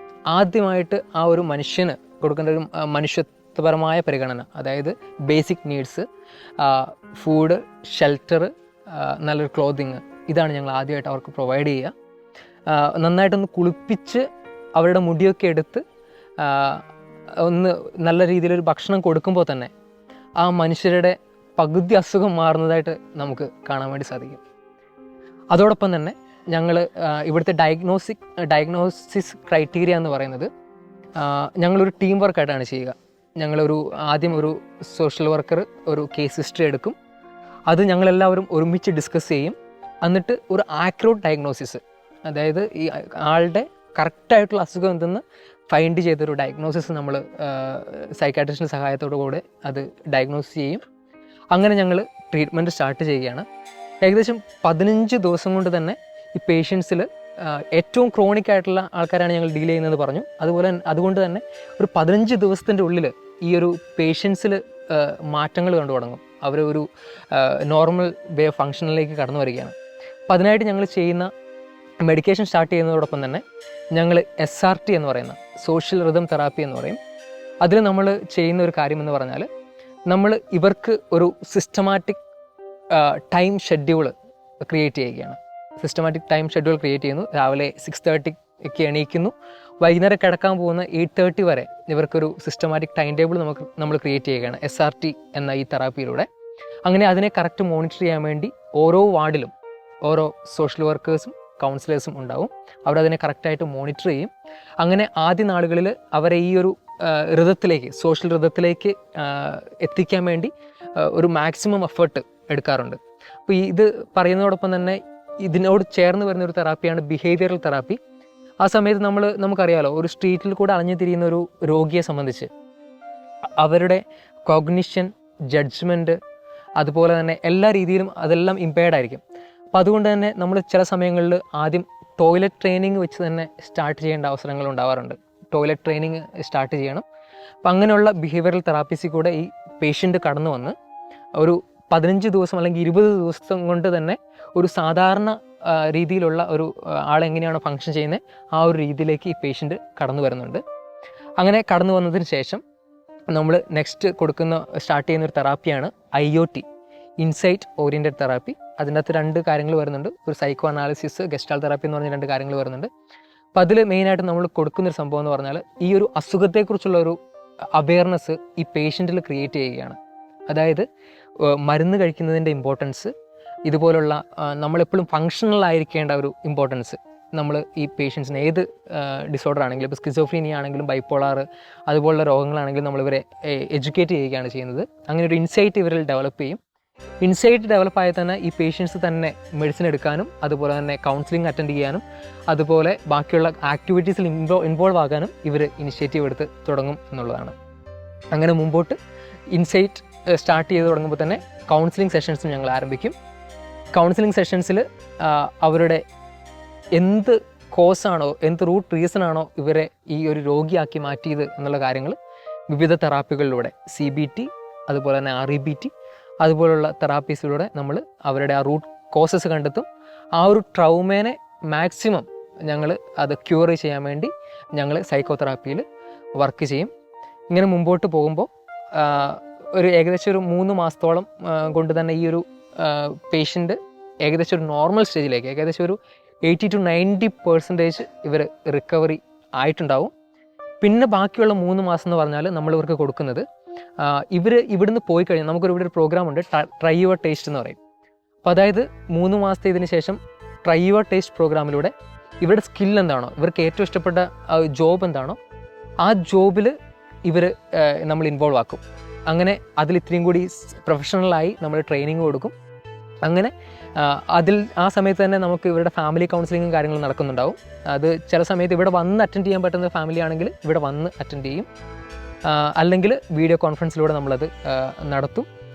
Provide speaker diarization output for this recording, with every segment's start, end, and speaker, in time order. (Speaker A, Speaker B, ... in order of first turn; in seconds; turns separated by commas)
Speaker A: 0.3-6.0, Speaker A: 6.6-11.9, Speaker A: 12.7-14.2, Speaker A: 14.8-15.8, Speaker A: 16.4-16.8, Speaker A: 17.4-19.7, Speaker A: 20.4-24.4, Speaker A: 25.5-30.5, Speaker A: 31.2-36.9, Speaker A: 37.7-50.8, Speaker A: 51.5-53.4, Speaker A: 54.0-69.7, Speaker A: 70.3-71.3, Speaker A: 72.0-73.4, Speaker A: 73.9-77.0, Speaker A: 77.6-79.5, Speaker A: 80.1-82.2, Speaker A: 82.9-96.3, Speaker A: 96.9-99.5, Speaker A: 100.0-118.0, Speaker A: 118.6-122.5, Speaker A: 123.6-126.2, Speaker A: 126.8-129.2, Speaker A: 129.7-137.0, Speaker A: 137.6-140.7, Speaker A: 141.4-150.6, Speaker A: 151.4-152.6, Speaker A: 153.3-156.6, Speaker A: 157.2-162.9, Speaker A: 163.6-167.2, Speaker A: 167.8-170.0, Speaker A: 170.5-170.9, Speaker A: 171.4-173.1, Speaker A: 173.7-186.6, Speaker A: 187.2-197.5, Speaker A: 198.3-199.0, Speaker A: 199.5-203.1, Speaker A: 203.9-206.0, Speaker A: 206.9-212.2, Speaker A: 212.7-219.9, Speaker A: 220.4-225.8, Speaker A: 226.4-226.9, Speaker A: 227.5-240.1, Speaker A: 240.8-243.4, Speaker A: 244.0-247.8, Speaker A: 248.4-255.4, Speaker A: 256.0-256.7, Speaker A: 257.2-262.5, Speaker A: 263.2-271.7, Speaker A: 272.4-275.4